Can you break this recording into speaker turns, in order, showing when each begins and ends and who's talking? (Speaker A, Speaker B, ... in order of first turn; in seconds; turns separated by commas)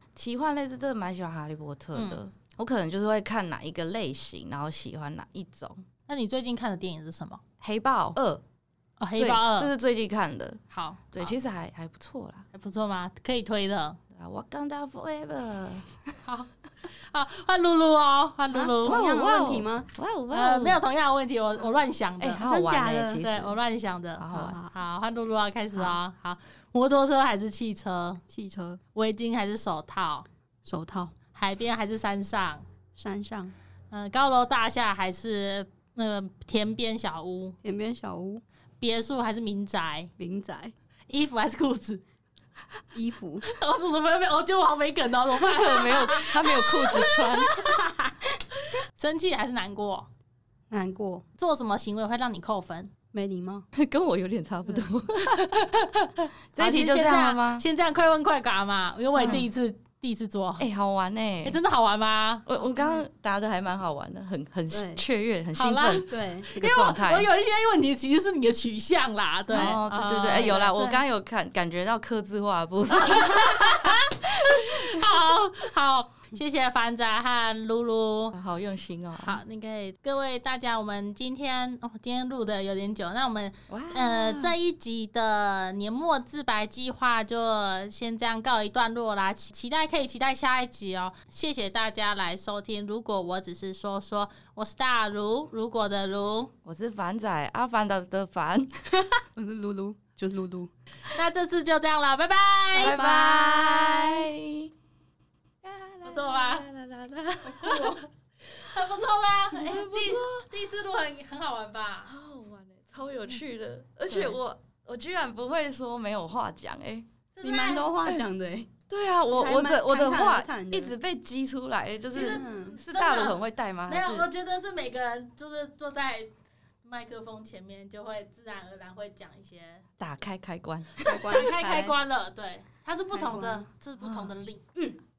Speaker A: 0.1-5.8, Speaker B: 1.9-2.2, Speaker B: 6.1-7.4, Speaker A: 7.6-8.4, Speaker B: 9.0-9.7, Speaker A: 9.2-10.6, Speaker B: 10.7-11.3, Speaker A: 11.1-12.5, Speaker B: 12.5-14.0, Speaker A: 14.1-16.2, Speaker B: 17.0-19.0, Speaker C: 18.5-19.9, Speaker A: 18.9-20.8, Speaker B: 20.3-22.4, Speaker A: 22.2-23.6, Speaker C: 22.4-23.2, Speaker B: 23.2-28.2, Speaker A: 24.2-24.6, Speaker C: 24.3-24.7, Speaker C: 28.3-28.8, Speaker B: 28.9-30.3, Speaker C: 30.6-31.1, Speaker B: 31.3-32.6, Speaker C: 33.0-33.5, Speaker B: 33.9-37.6, Speaker C: 37.6-38.4, Speaker B: 38.8-40.1, Speaker C: 40.2-40.7, Speaker B: 41.1-42.0, Speaker C: 42.9-43.5, Speaker B: 43.4-47.8, Speaker A: 45.4-47.6, Speaker C: 47.7-48.2, Speaker B: 49.0-50.1, Speaker C: 50.7-51.2, Speaker B: 51.4-52.9, Speaker C: 53.1-53.7, Speaker A: 53.7-55.5, Speaker B: 55.2-60.7, Speaker A: 56.5-57.6, Speaker A: 59.1-59.5, Speaker A: 60.6-61.6, Speaker B: 61.4-62.5, Speaker A: 62.5-67.3, Speaker C: 64.7-65.0, Speaker B: 65.5-70.9, Speaker C: 66.1-66.5, Speaker A: 69.5-75.0, Speaker C: 69.5-71.0, Speaker B: 72.9-78.4, Speaker A: 78.3-79.4, Speaker B: 79.2-96.5, Speaker A: 83.7-84.6, Speaker A: 96.7-99.0, Speaker C: 99.4-100.7, Speaker B: 101.1-103.0, Speaker A: 102.8-104.7, Speaker C: 102.8-104.3, Speaker A: 105.6-108.0, Speaker B: 106.0-106.7, Speaker C: 107.5-108.0, Speaker B: 107.6-107.9, Speaker B: 108.5-112.1, Speaker A: 109.5-110.5, Speaker A: 112.1-117.1, Speaker C: 114.1-114.4, Speaker B: 117.3-117.9, Speaker C: 117.4-118.7, Speaker A: 118.9-124.3, Speaker C: 119.3-120.9, Speaker B: 122.1-126.3, Speaker C: 122.2-122.8, Speaker B: 126.8-129.8, Speaker A: 130.0-131.4, Speaker C: 131.1-132.0, Speaker B: 131.1-134.6, Speaker C: 133.1-133.7, Speaker A: 134.0-134.3